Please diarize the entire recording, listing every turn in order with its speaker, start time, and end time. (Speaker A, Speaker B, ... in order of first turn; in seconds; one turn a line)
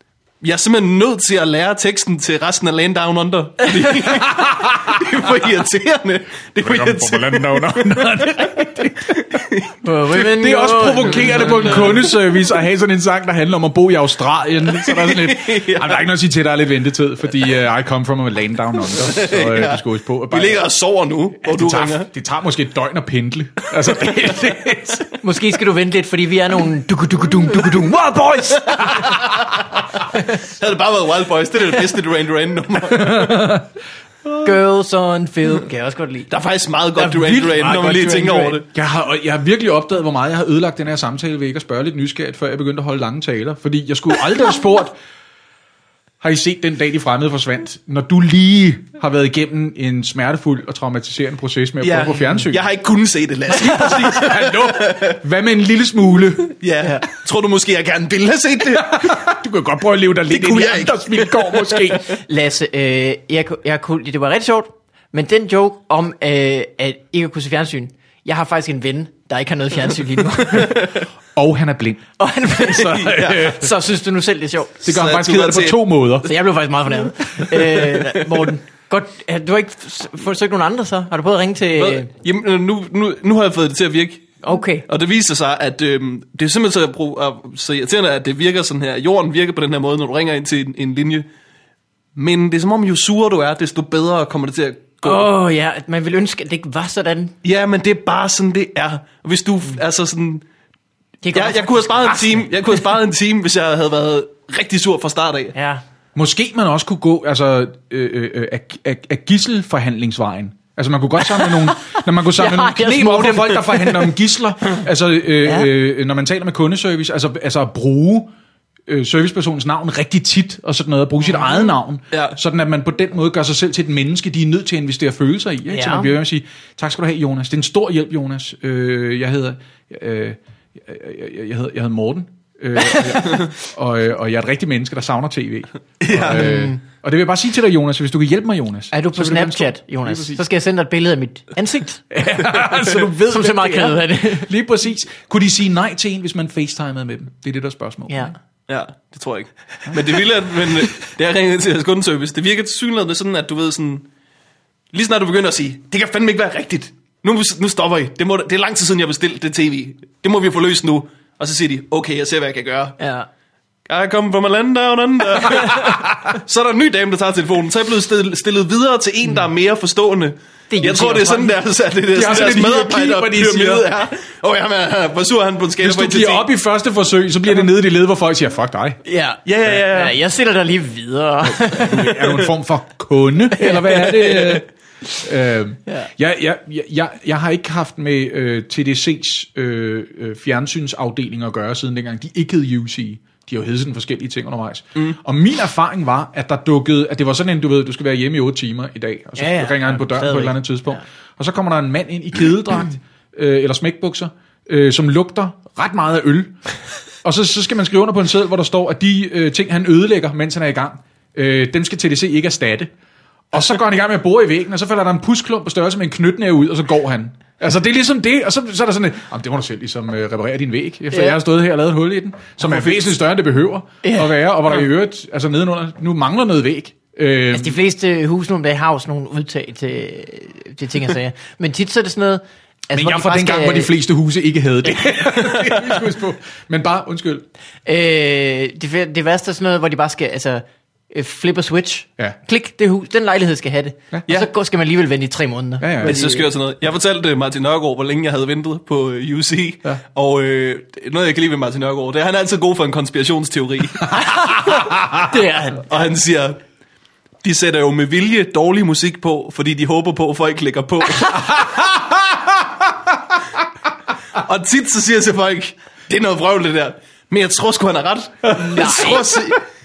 Speaker A: 0.4-8.2
Speaker B: 4.0-5.3
Speaker B: 6.6-9.5
Speaker A: 9.2-9.7
Speaker C: 9.8-12.1
Speaker B: 10.1-20.7
Speaker A: 11.5-12.0
Speaker A: 14.7-16.1
Speaker A: 18.9-22.1
Speaker B: 21.4-25.2
Speaker A: 23.9-24.1
Speaker C: 25.2-29.5
Speaker C: 30.0-30.3
Speaker A: 30.2-33.5
Speaker B: 32.9-33.7
Speaker C: 34.4-36.3
Speaker A: 36.3-38.6
Speaker C: 36.9-38.6
Speaker B: 38.7-45.0
Speaker B: 46.2-52.6
Speaker A: 51.8-55.2
Speaker B: 53.5-56.5
Speaker A: 56.6-59.2
Speaker B: 58.7-62.1
Speaker A: 60.3-62.0
Speaker C: 62.1-71.0
Speaker B: 71.3-73.7
Speaker C: 72.2-74.8
Speaker B: 74.8-76.3
Speaker A: 74.8-75.9
Speaker C: 76.2-82.1
Speaker A: 77.7-78.2
Speaker A: 81.8-91.2
Speaker C: 84.4-84.8
Speaker A: 92.1-95.3
Speaker C: 95.0-97.3
Speaker A: 97.4-100.4
Speaker C: 101.2-102.7
Speaker A: 101.3-105.5
Speaker C: 105.5-105.8
Speaker B: 106.1-118.3
Speaker C: 111.2-114.1
Speaker C: 115.4-115.7
Speaker B: 118.9-140.4
Speaker C: 121.3-121.7
Speaker A: 122.1-122.4
Speaker C: 125.7-126.1
Speaker C: 132.9-133.4
Speaker A: 136.0-136.5
Speaker C: 136.2-136.8
Speaker C: 138.9-142.0
Speaker B: 142.1-148.3
Speaker C: 143.0-144.5
Speaker C: 148.1-148.3
Speaker A: 148.7-154.1
Speaker B: 149.9-150.2
Speaker A: 154.9-163.0
Speaker C: 163.0-163.3
Speaker A: 163.9-176.5
Speaker C: 170.7-171.6
Speaker B: 172.1-174.0
Speaker B: 175.8-179.0
Speaker C: 179.0-182.5
Speaker A: 179.4-180.2
Speaker B: 181.4-184.6
Speaker C: 183.5-184.4
Speaker B: 185.2-206.6
Speaker C: 199.4-201.0
Speaker B: 207.2-212.9
Speaker B: 213.5-227.8
Speaker C: 221.1-221.4
Speaker C: 222.6-223.1
Speaker C: 224.0-224.3
Speaker C: 227.5-233.9
Speaker B: 232.9-237.4
Speaker C: 237.8-246.5
Speaker B: 245.8-246.2
Speaker A: 246.0-254.2
Speaker C: 254.1-255.9
Speaker A: 255.8-256.6
Speaker A: 257.4-261.7
Speaker B: 261.3-262.7
Speaker A: 264.3-269.6
Speaker B: 268.5-268.8
Speaker C: 268.5-269.4